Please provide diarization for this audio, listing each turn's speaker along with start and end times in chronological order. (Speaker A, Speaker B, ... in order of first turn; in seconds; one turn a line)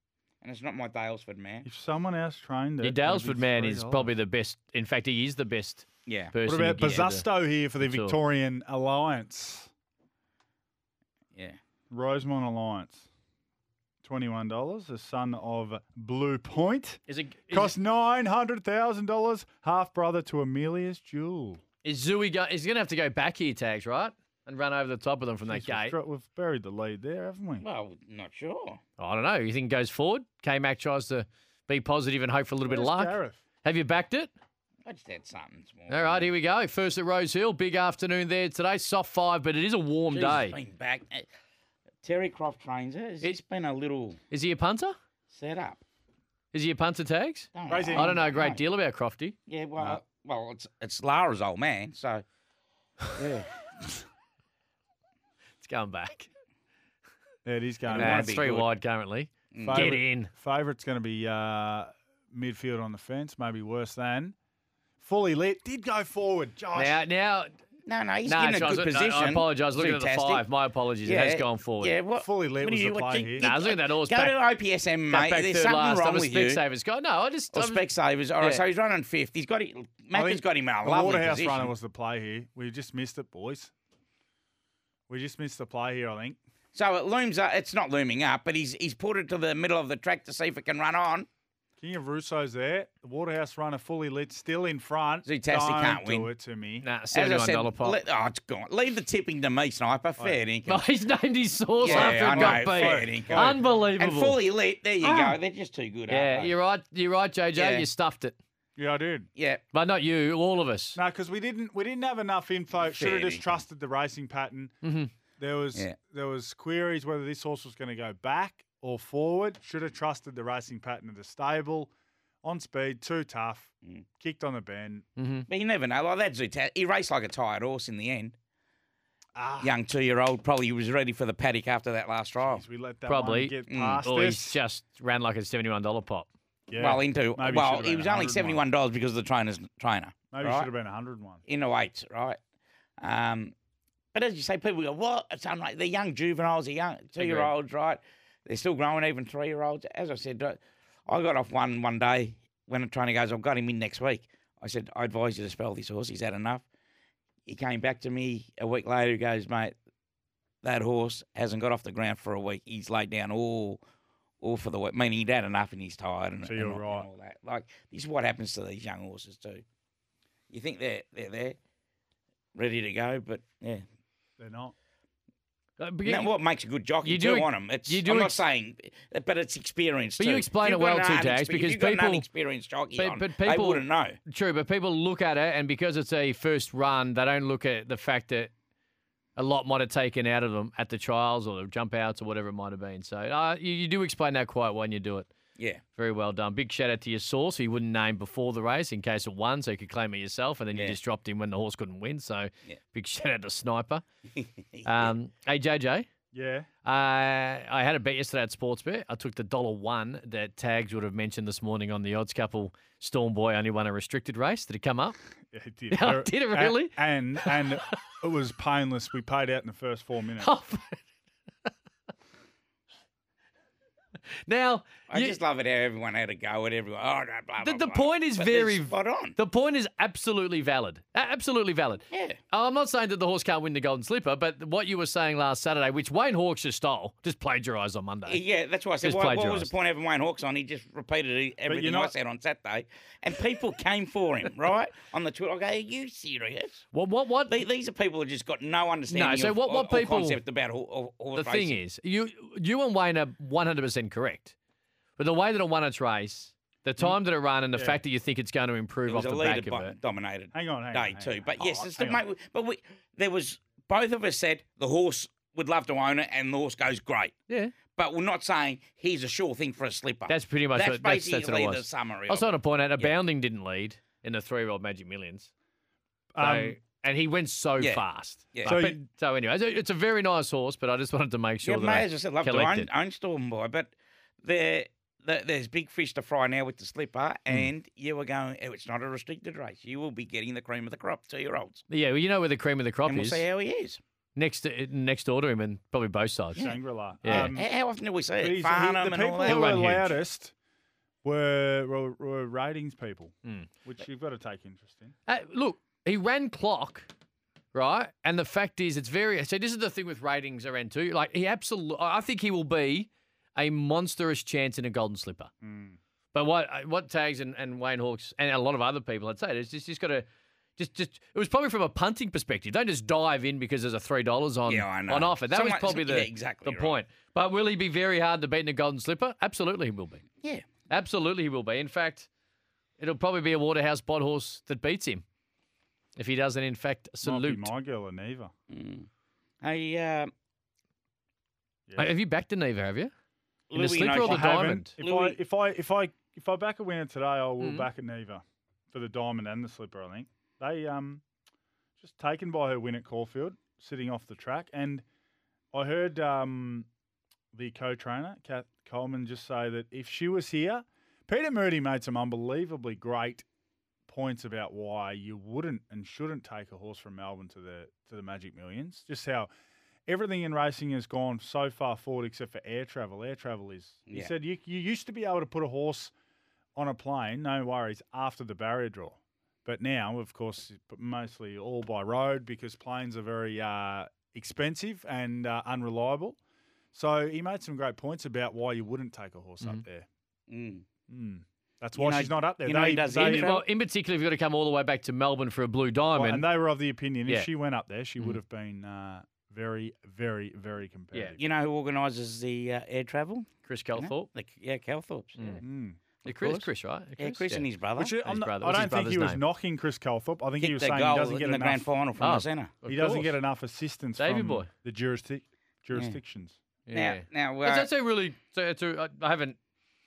Speaker A: 0.4-1.6
Speaker B: 1.6-4.1
Speaker C: 2.8-7.3
Speaker A: 6.0-7.0
Speaker B: 6.5-9.7
Speaker C: 7.8-8.2
Speaker A: 11.3-11.6
Speaker B: 11.9-13.1
Speaker B: 14.0-21.6
Speaker C: 17.1-17.7
Speaker C: 21.8-25.9
Speaker B: 25.5-27.6
Speaker A: 27.6-28.8
Speaker C: 29.0-34.3
Speaker B: 32.7-33.4
Speaker A: 34.9-36.3
Speaker C: 35.9-40.6
Speaker A: 40.1-41.3
Speaker A: 42.0-44.2
Speaker C: 44.3-44.9
Speaker A: 45.3-45.8
Speaker C: 46.5-49.3
Speaker A: 47.5-48.6
Speaker B: 47.7-48.1
Speaker A: 49.5-52.2
Speaker A: 53.1-53.6
Speaker C: 55.6-56.3
Speaker B: 57.4-58.4
Speaker A: 57.9-58.7
Speaker C: 57.9-60.3
Speaker A: 59.5-59.8
Speaker B: 59.6-64.3
Speaker B: 65.0-67.0
Speaker C: 66.7-67.5
Speaker A: 67.8-70.5
Speaker C: 68.2-71.9
Speaker A: 71.0-76.6
Speaker B: 72.2-73.5
Speaker C: 73.4-74.3
Speaker C: 75.1-77.8
Speaker A: 77.5-81.7
Speaker B: 80.1-83.7
Speaker B: 85.1-86.4
Speaker A: 86.7-91.3
Speaker B: 91.8-96.9
Speaker A: 95.2-96.3
Speaker C: 96.8-98.0
Speaker A: 97.1-100.8
Speaker C: 100.7-104.4
Speaker A: 101.8-106.5
Speaker B: 101.8-103.6
Speaker C: 105.0-105.4
Speaker C: 106.1-108.3
Speaker A: 107.5-107.9
Speaker B: 108.8-109.3
Speaker A: 109.3-109.6
Speaker C: 109.7-111.0
Speaker B: 110.9-114.8
Speaker A: 112.9-113.6
Speaker C: 114.8-115.1
Speaker B: 115.4-121.9
Speaker B: 122.4-125.0
Speaker C: 125.2-125.5
Speaker A: 125.5-128.3
Speaker B: 129.3-129.7
Speaker A: 129.6-132.6
Speaker B: 132.4-134.6
Speaker C: 133.1-136.3
Speaker A: 133.7-134.0
Speaker B: 136.7-138.6
Speaker A: 136.8-140.7
Speaker B: 140.3-141.4
Speaker A: 141.4-142.4
Speaker A: 143.0-143.5
Speaker A: 144.1-156.6
Speaker C: 147.2-147.5
Speaker A: 157.4-159.7
Speaker A: 160.6-163.8
Speaker A: 164.4-169.6
Speaker B: 166.4-167.1
Speaker A: 170.5-171.6
Speaker A: 172.5-173.8
Speaker B: 174.4-174.7
Speaker C: 175.8-176.3
Speaker A: 176.0-184.2
Speaker C: 177.0-178.4
Speaker C: 180.2-182.2
Speaker C: 182.9-188.5
Speaker C: 189.3-195.3
Speaker C: 195.9-204.0
Speaker A: 204.4-205.1
Speaker C: 204.8-206.1
Speaker B: 206.3-206.7
Speaker C: 206.8-215.2
Speaker B: 215.5-220.5
Speaker C: 215.9-217.7
Speaker C: 220.4-221.0
Speaker C: 224.4-225.4
Speaker A: 225.1-229.4
Speaker C: 227.6-238.4
Speaker A: 232.1-232.4
Speaker A: 238.2-246.8
Speaker C: 239.0-239.7
Speaker B: 241.7-242.1
Speaker C: 246.9-247.6
Speaker A: 247.5-251.8
Speaker C: 249.1-250.4
Speaker C: 251.3-254.5
Speaker C: 255.2-259.9
Speaker B: 257.7-258.0
Speaker A: 259.1-267.3
Speaker B: 260.5-262.2
Speaker C: 267.5-267.7
Speaker A: 267.9-273.1
Speaker C: 270.3-275.5
Speaker B: 276.3-276.8
Speaker C: 276.4-282.9
Speaker B: 278.6-279.0
Speaker A: 281.6-283.9
Speaker A: 284.4-291.8
Speaker C: 291.9-293.4
Speaker A: 293.1-294.0
Speaker C: 294.4-296.7
Speaker A: 296.5-300.0
Speaker B: 296.6-297.7
Speaker C: 297.2-297.5
Speaker B: 298.4-300.5
Speaker C: 299.4-300.1
Speaker B: 301.2-303.3
Speaker B: 303.8-305.1
Speaker C: 305.3-307.1
Speaker C: 307.7-315.5
Speaker B: 315.6-316.0
Speaker C: 316.3-330.2
Speaker A: 324.7-327.0
Speaker C: 330.9-332.3
Speaker C: 333.0-335.2
Speaker C: 336.1-337.7
Speaker B: 337.2-338.5
Speaker A: 338.7-339.1
Speaker A: 339.6-340.3
Speaker B: 341.9-342.1
Speaker C: 341.9-343.1
Speaker A: 343.7-345.4
Speaker C: 343.7-344.9
Speaker B: 344.1-351.2
Speaker C: 347.6-347.9
Speaker B: 352.0-355.0
Speaker B: 355.7-356.9
Speaker B: 357.5-363.4
Speaker B: 364.1-369.5
Speaker B: 370.1-376.1
Speaker B: 376.8-386.4
Speaker B: 386.9-390.1
Speaker A: 390.5-390.8
Speaker B: 391.1-393.6
Speaker A: 391.9-393.6
Speaker C: 393.2-396.5
Speaker B: 396.1-401.4
Speaker A: 401.4-405.6
Speaker C: 403.6-404.3
Speaker B: 405.6-406.0
Speaker A: 406.2-406.7
Speaker C: 406.2-407.7
Speaker A: 407.2-408.2
Speaker B: 408.0-411.9
Speaker C: 408.2-409.4
Speaker A: 410.6-412.7
Speaker C: 412.2-413.4
Speaker B: 412.9-416.6
Speaker C: 414.2-414.7
Speaker C: 416.9-419.6
Speaker A: 416.9-417.9